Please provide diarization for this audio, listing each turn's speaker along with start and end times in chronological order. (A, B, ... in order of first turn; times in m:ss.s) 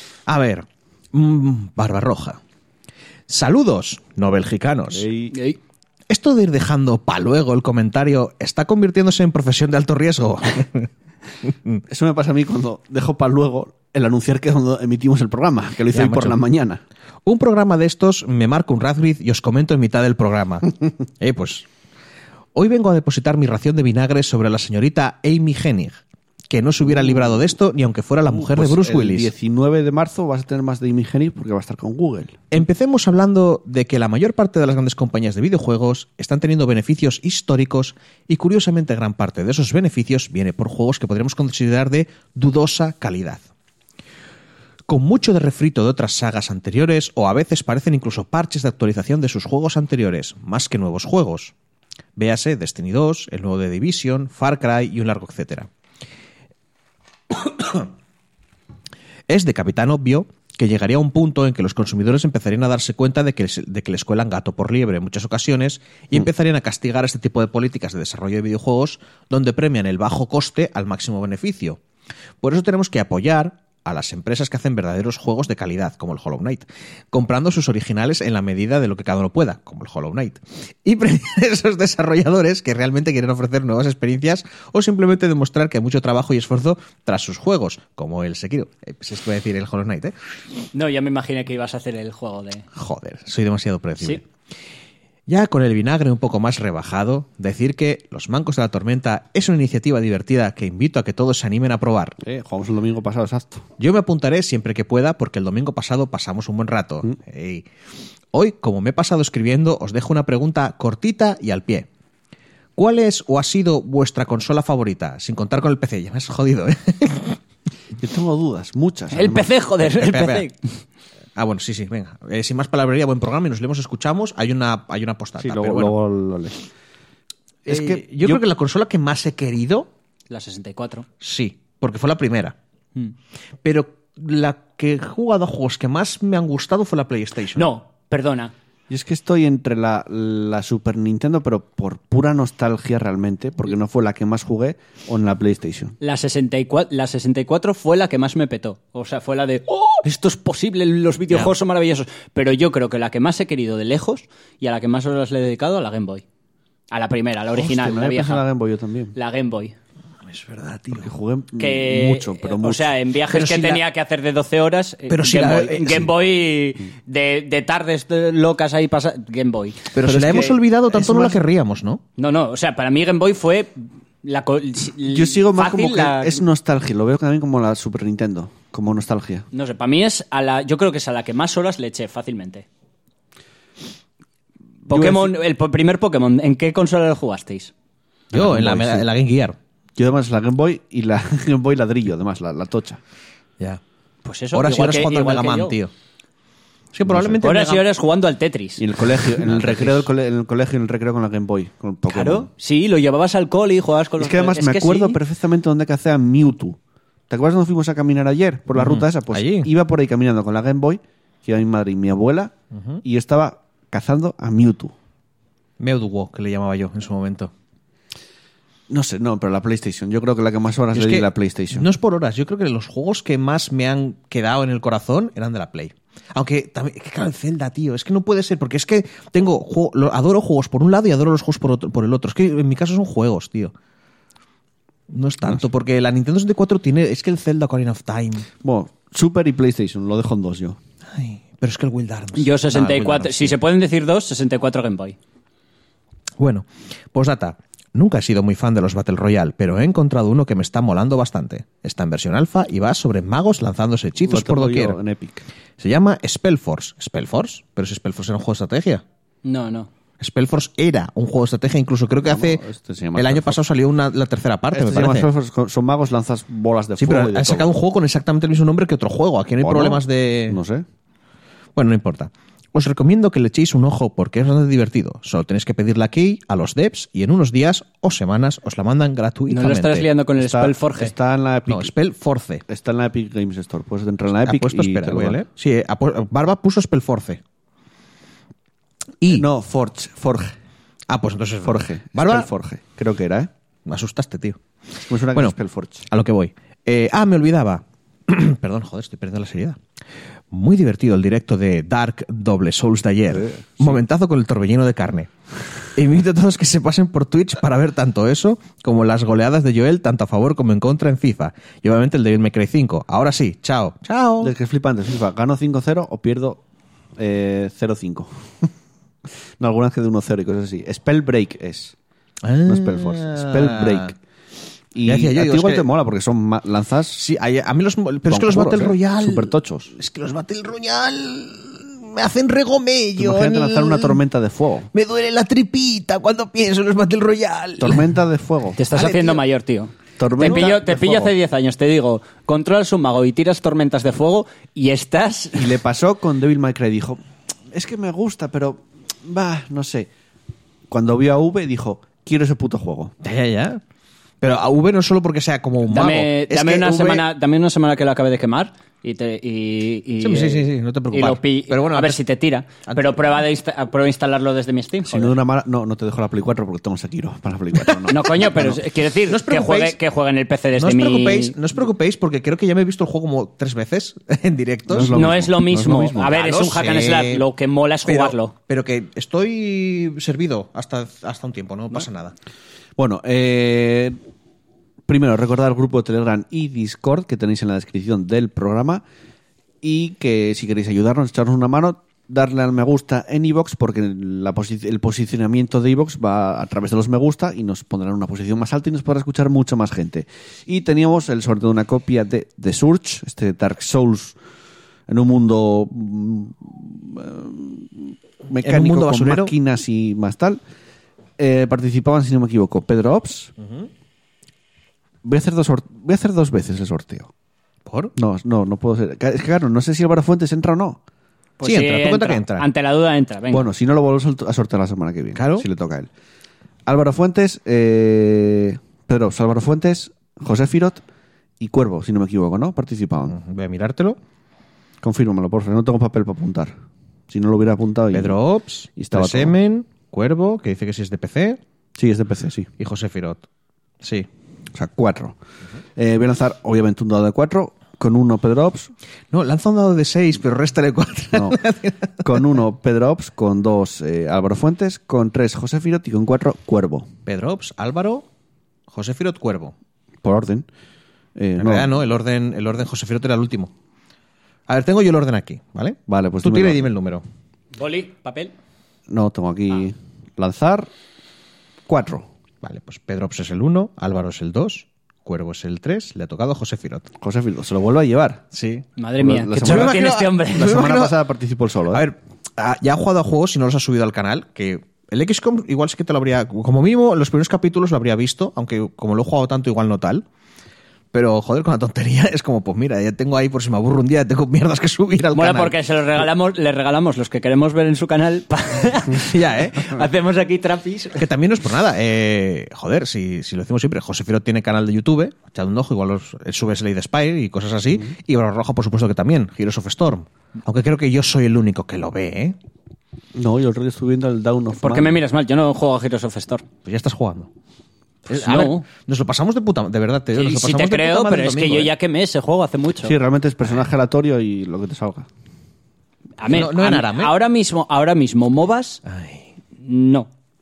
0:00.3-0:02.4 A
0:03.3-0:05.0 A
0:04.9-0:05.4 B
0:05.3-0:05.6 C
0:06.1-0:10.9 A
0:11.4-0:11.8 A
0:11.9-0:16.8 B
0:15.9-0:16.4 A
0:17.2-0:21.6 A
0:22.5-0:29.3 A
0:26.8-0:27.6 B
0:28.2-0:32.4 B
0:32.5-0:43.4 A
0:44.9-0:51.5 A
0:52.2-0:55.7 A
0:57.3-0:57.9 A
0:59.3-1:11.8 A
1:12.4-1:30.1 A
1:30.7-1:32.7 C
1:32.7-1:34.2 A
1:35.3-1:42.2 A
1:42.2-1:43.7 B
1:43.8-1:47.6 A
1:48.3-1:51.9 A
1:52.8-1:57.4 A
1:58.0-1:59.5 B
1:59.1-2:00.5 C
1:59.8-2:00.5 A
2:01.4-2:05.9 A
2:05.4-2:06.6 B
2:07.6-2:08.4 B
2:07.7-2:09.9 A
2:10.3-2:11.0 C
2:11.2-2:12.6 A
2:13.6-2:17.7 A
2:17.5-2:18.5 C
2:18.9-2:26.0 B
2:26.0-2:36.2 C
2:36.9-2:38.4 C
2:37.5-2:39.1 B
2:39.1-2:39.7 C
2:40.3-2:41.1 A
2:40.9-2:42.9 B
2:41.6-2:49.9 C
2:43.3-2:43.8 A
2:45.1-2:46.1 A
2:49.9-2:52.0 A
2:50.0-2:51.4 B
2:52.2-2:56.4 C
2:55.1-2:59.5 B
2:59.5-3:02.6 C
3:04.9-3:07.7 C
3:04.9-3:05.3 B
3:08.3-3:09.1 B
3:08.3-3:09.6 A
3:10.0-3:13.0 B
3:14.2-3:15.8 C
3:14.5-3:15.9 A
3:16.9-3:17.8 A
3:17.0-3:17.5 B
3:17.4-3:18.8 C
3:18.8-3:22.5 B
3:19.4-3:20.0 A
3:22.1-3:25.2 C
3:24.2-3:26.8 B
3:27.3-3:34.9 B
3:28.7-3:29.7 A
3:32.7-3:33.0 A
3:35.8-3:37.5 A
3:38.9-3:41.9 B
3:40.9-3:53.7 A
3:55.1-3:58.5 A
3:58.6-4:00.8 B
4:01.1-4:03.5 A
4:02.3-4:05.2 C
4:06.4-4:15.0 A
4:14.2-4:15.4 B
4:15.8-4:19.0 A
4:19.4-4:19.9 C
4:20.2-4:22.6 A
4:22.2-4:23.6 B
4:23.2-4:25.3 A
4:24.7-4:27.7 B
4:27.0-4:30.6 A
4:29.6-4:30.8 B
4:31.8-4:40.1 A
4:39.5-4:41.1 C
4:40.4-4:41.9 B
4:41.7-4:42.6 A
4:42.7-4:45.4 B
4:44.4-4:47.4 A
4:49.2-4:49.4 A
4:49.3-4:50.5 B
4:51.1-4:52.5 A
4:51.6-4:53.5 B
4:53.8-4:54.6 A
4:55.1-4:56.1 B
4:56.1-4:59.8 A
5:00.5-5:05.3 A
5:03.3-5:04.0 B
5:05.9-5:14.5 A
5:14.4-5:16.6 B
5:17.2-5:18.7 B
5:19.6-5:21.9 B
5:22.4-5:24.1 A
5:22.6-5:24.2 B
5:24.9-5:27.2 B
5:25.0-5:25.9 A
5:27.2-5:34.2 A
5:28.3-5:29.9 B
5:33.2-5:34.9 B
5:34.9-5:38.1 A
5:37.8-5:38.8 B
5:38.8-5:45.7 C
5:38.9-5:39.4 A
5:40.2-5:41.3 B
5:40.4-5:40.7 A
5:45.5-5:47.2 B
5:47.7-5:50.1 B
5:50.9-5:53.1 B
5:53.2-5:53.8 A
5:54.4-5:57.2 A
5:55.9-6:05.3 C
6:00.2-6:02.2 A
6:02.9-6:03.4 A
6:05.1-6:08.8 B
6:08.1-6:11.6 C
6:09.3-6:10.0 A
6:10.8-6:15.3 A
6:14.9-6:16.4 B
6:15.0-6:18.5 C
6:16.3-6:17.4 A
6:18.1-6:22.3 A
6:23.0-6:24.2 B
6:25.1-6:29.0 B
6:29.8-6:44.4 B
6:45.1-6:50.6 B
6:48.6-6:49.5 A
6:51.4-6:53.5 B
6:53.6-6:53.9 A
6:55.2-6:57.3 B
6:57.8-6:58.1 A
6:58.2-7:01.0 B
7:01.6-7:03.7 C
7:01.6-7:02.6 A
7:03.5-7:06.1 B
7:05.4-7:05.6 A
7:06.8-7:11.0 B
7:11.6-7:13.4 B
7:13.3-7:14.2 A
7:15.0-7:16.7 B
7:17.3-7:18.4 B
7:18.1-7:21.6 A
7:19.0-7:19.5 B
7:22.0-7:22.7 B
7:22.8-7:23.4 A
7:24.0-7:24.3 A
7:24.7-7:25.4 B
7:26.0-7:28.9 B
7:29.3-7:32.1 A
7:31.3-7:31.6 B
7:32.2-7:37.1 B
7:37.2-7:38.2 A
7:38.9-7:39.7 A
7:40.2-7:40.7 B
7:41.4-7:41.9 B
7:41.6-7:43.7 A
7:44.7-7:47.2 A
7:46.1-7:46.9 B
7:47.7-7:48.5 C
7:49.1-7:50.9 B
7:51.9-7:52.3 B
7:52.6-7:57.1 A
7:57.2-7:58.4 B
7:58.5-7:58.8 A
7:59.0-8:00.8 C
7:59.2-8:02.0 B
7:59.6-8:01.2 A
8:01.9-8:10.2 A
8:11.1-8:16.2 A
8:15.3-8:21.2 C
8:19.1-8:20.0 A
8:21.2-8:32.6 A
8:33.3-8:35.2 B
8:34.7-8:36.6 C
8:36.8-8:37.5 A
8:38.3-8:41.9 A
8:38.3-8:38.8 C
8:40.3-8:43.2 C
8:43.0-8:45.3 B
8:46.4-8:49.0 C
8:46.5-8:47.4 A
8:49.0-8:49.4 A
8:49.8-8:50.3 C